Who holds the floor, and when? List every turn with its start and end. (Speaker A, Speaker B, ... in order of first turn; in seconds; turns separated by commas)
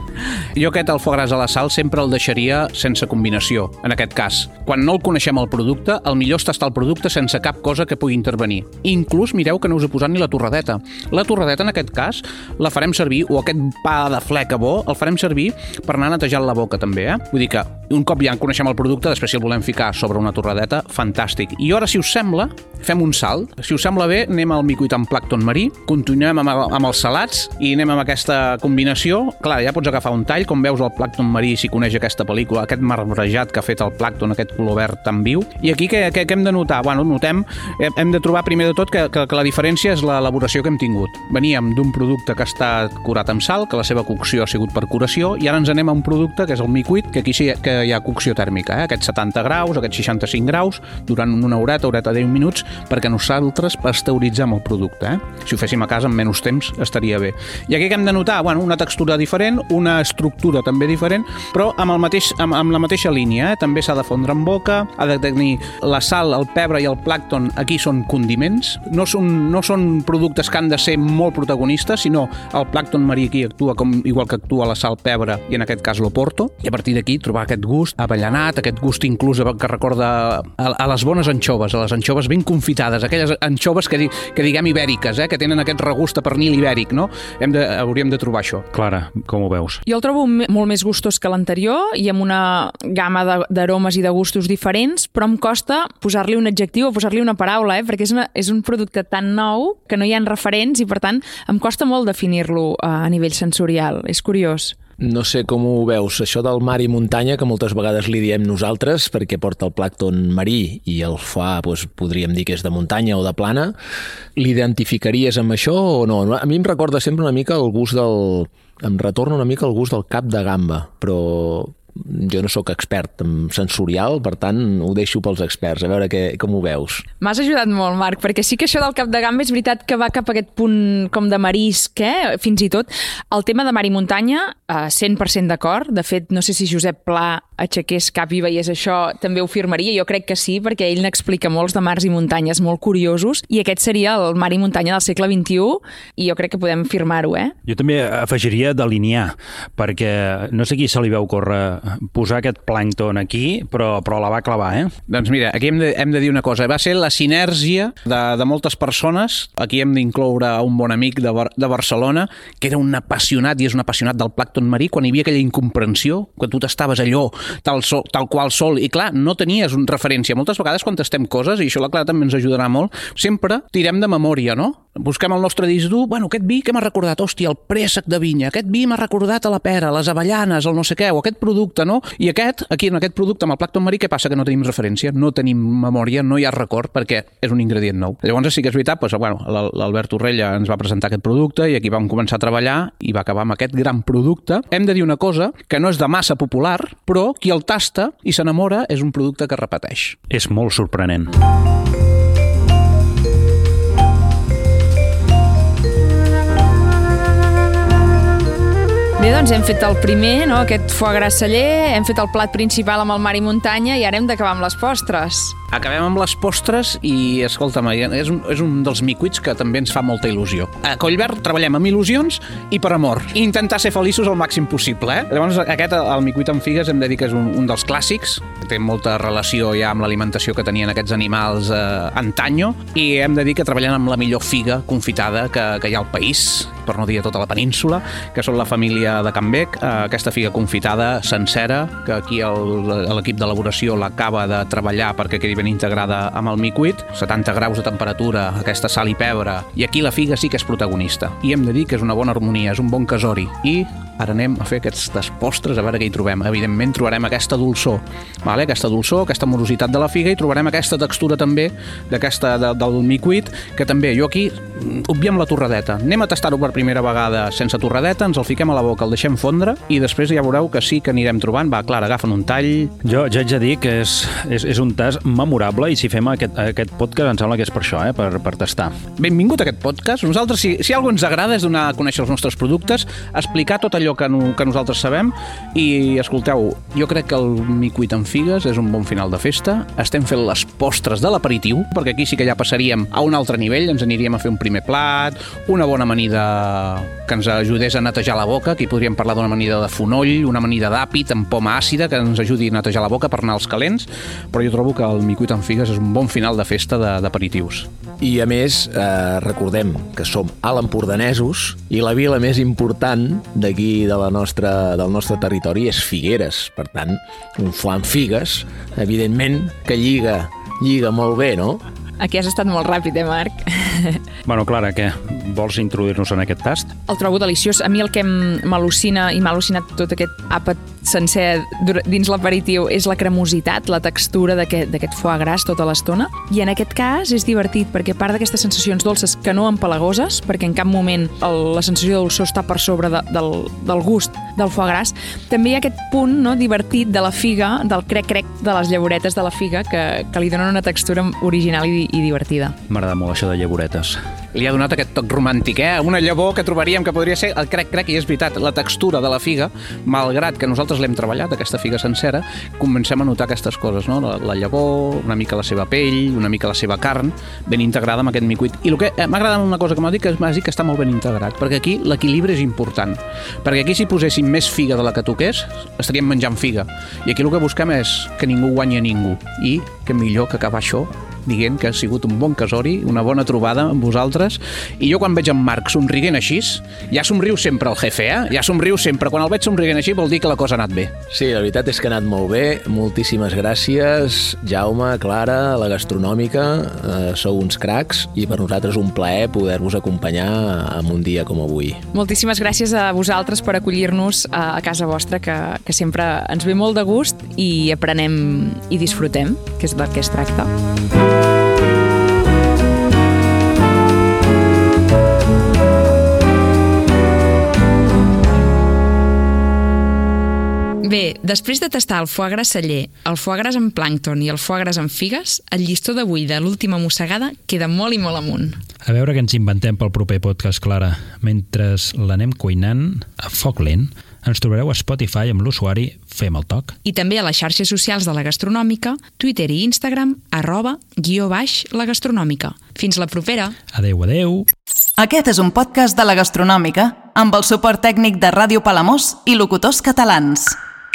Speaker A: 0.6-88.7, Speaker B: 88.7-89.8, Speaker C: 89.9-104.8, Speaker D: 105.0-113.8, Speaker D: 114.4-127.0, Speaker C: 127.2-147.5, Speaker B: 147.7-154.9, Speaker A: 155.1-200.2, Speaker B: 200.3-201.3, Speaker C: 209.2-215.6, Speaker A: 215.7-272.9, Speaker B: 273.0-279.0, Speaker A: 279.2-307.9, Speaker D: 308.2-321.8, Speaker C: 322.2-324.2, Speaker B: 324.4-326.9, Speaker C: 327.1-352.8, Speaker B: 352.9-354.2, Speaker A: 354.5-391.1, Speaker D: 391.3-402.1, Speaker C: 402.1-410.7, Speaker C: 421.0-428.8, Speaker B: 429.0-437.0, Speaker C: 437.1-443.8, Speaker B: 443.9-444.7, Speaker E: 445.2-450.8